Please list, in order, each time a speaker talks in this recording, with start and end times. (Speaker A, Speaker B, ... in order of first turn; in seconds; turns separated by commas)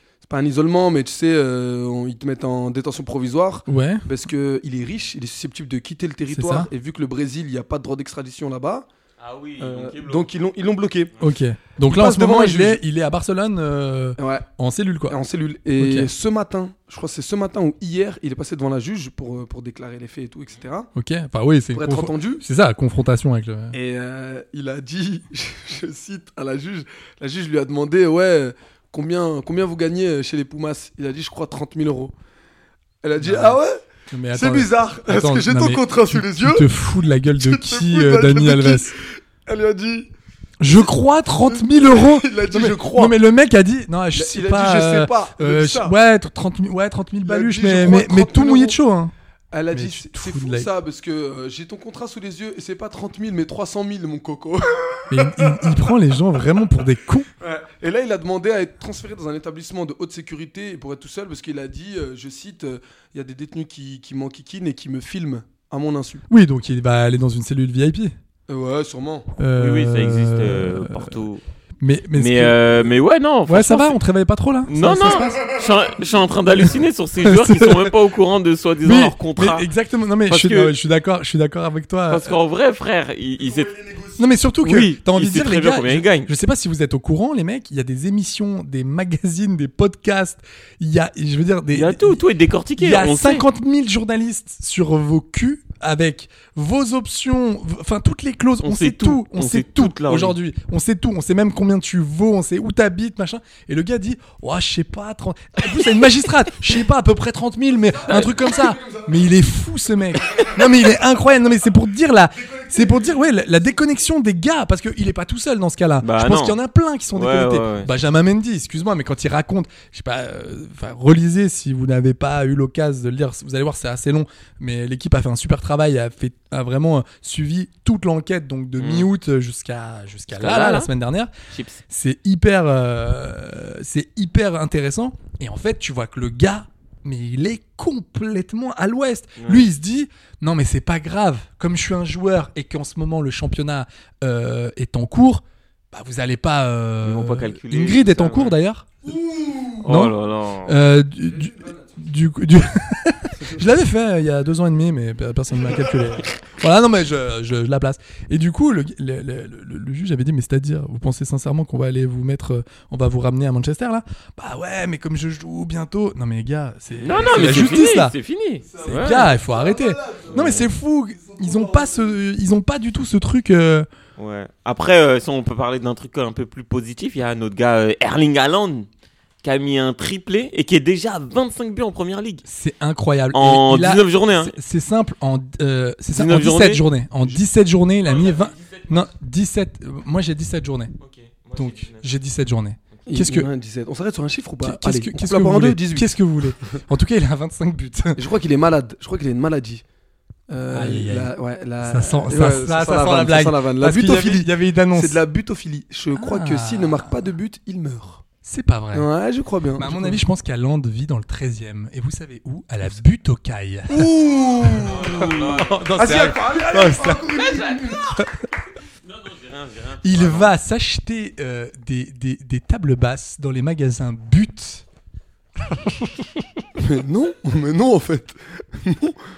Speaker A: 0.2-8.9, Speaker B: 3.7-4.0, Speaker B: 6.3-6.7, Speaker C: 9.2-10.3, Speaker A: 9.6-11.1, Speaker B: 11.2-15.2, Speaker A: 11.9-12.8, Speaker A: 14.2-14.4, Speaker A: 15.1-20.9, Speaker B: 15.8-16.1, Speaker B: 20.9-23.8, Speaker A: 21.7-22.4, Speaker A: 23.7-32.1, Speaker A: 33.0-33.8, Speaker B: 33.2-33.6, Speaker B: 34.1-38.9, Speaker A: 34.3-36.7, Speaker A: 37.4-40.1, Speaker B: 40.6-49.1, Speaker A: 40.6-40.9, Speaker A: 41.5-43.2, Speaker A: 44.1-45.9, Speaker A: 47.2-48.8, Speaker A: 49.5-55.2, Speaker B: 49.7-50.7, Speaker B: 55.1-57.3, Speaker A: 57.4-66.2, Speaker B: 66.3-68.1, Speaker A: 68.5-69.3, Speaker B: 69.4-71.2, Speaker C: 69.6-71.4, Speaker B: 71.8-72.7, Speaker C: 72.1-74.0, Speaker B: 73.5-75.6, Speaker C: 74.7-79.7, Speaker B: 76.6-77.9, Speaker B: 78.8-82.4, Speaker C: 80.3-80.7, Speaker C: 82.1-83.9, Speaker B: 84.2-92.2, Speaker C: 84.6-86.3, Speaker C: 91.7-93.4, Speaker B: 92.8-131.3, Speaker C: 98.6-100.4, Speaker C: 108.1-108.4, Speaker C: 116.0-116.6, Speaker C: 117.1-117.9, Speaker C: 128.8-129.1, Speaker C: 130.4-130.9, Speaker C: 131.5-131.8, Speaker B: 131.9-149.1, Speaker C: 139.4-139.6, Speaker C: 147.0-148.6, Speaker A: 149.1-149.8, Speaker C: 149.8-150.8, Speaker B: 149.8-168.1, Speaker A: 151.3-151.9, Speaker A: 153.4-153.6, Speaker C: 167.0-169.3, Speaker A: 168.7-170.6, Speaker B: 168.8-173.9, Speaker C: 170.3-170.7, Speaker A: 171.2-172.0, Speaker C: 174.2-178.9, Speaker C: 179.4-182.4, Speaker B: 182.4-190.9, Speaker C: 183.3-184.5, Speaker C: 186.1-186.8, Speaker C: 188.1-189.1, Speaker C: 191.0-192.1, Speaker B: 191.6-193.5, Speaker A: 193.1-196.1, Speaker B: 194.6-198.2, Speaker A: 198.2-199.8, Speaker A: 200.5-208.2, Speaker B: 200.7-205.2, Speaker B: 206.1-207.3, Speaker B: 208.4-209.1, Speaker A: 208.9-210.2, Speaker B: 209.8-218.3, Speaker A: 213.9-215.4, Speaker C: 214.8-215.9, Speaker A: 215.9-218.1, Speaker C: 217.3-218.1, Speaker C: 219.1-220.5, Speaker B: 220.0-224.8, Speaker B: 225.7-226.2, Speaker A: 226.8-229.2